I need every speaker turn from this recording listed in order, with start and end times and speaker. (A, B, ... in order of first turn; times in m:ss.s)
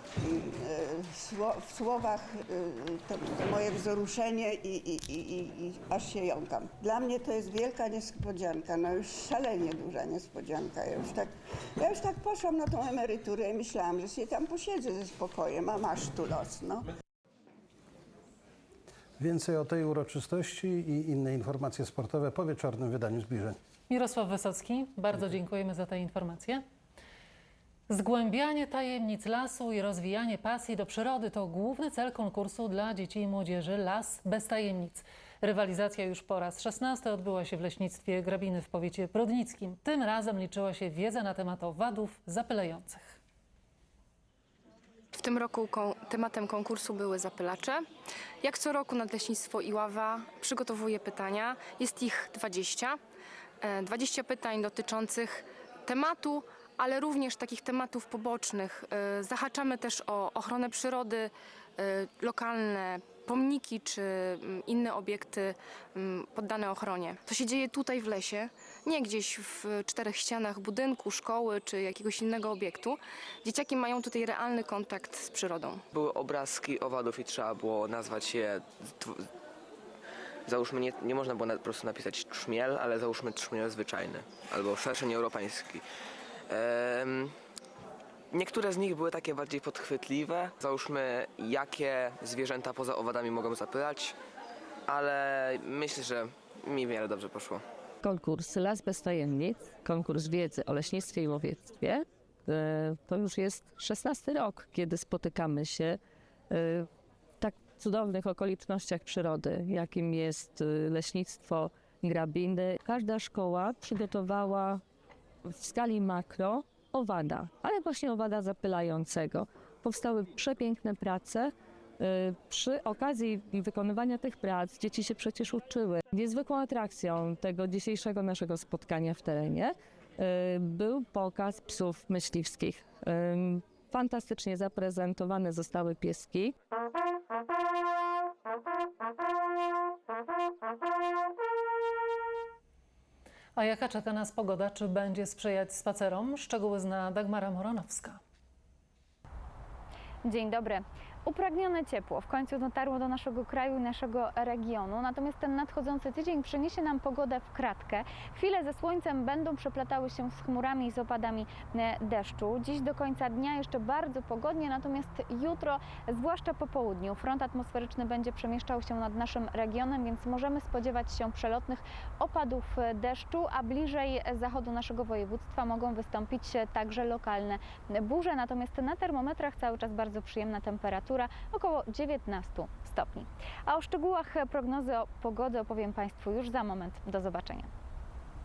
0:00.2-0:16.9 A
0:19.2-0:23.6 B
0:23.9-0:26.6 C
0:27.9-0:43.2 C
0:45.1-0:47.8 D
0:48.4-0:53.0 D
0:53.6-1:15.8 D
1:15.9-1:19.3 E
1:20.5-1:25.8 E
1:26.5-1:27.3 E
1:28.3-1:34.1 E
1:34.9-1:37.6 E
1:38.0-1:46.0 F
1:46.5-1:46.9 F
1:47.4-1:54.8 F
1:55.4-2:16.5 F
2:23.6-2:28.2 C
2:30.2-3:07.7 G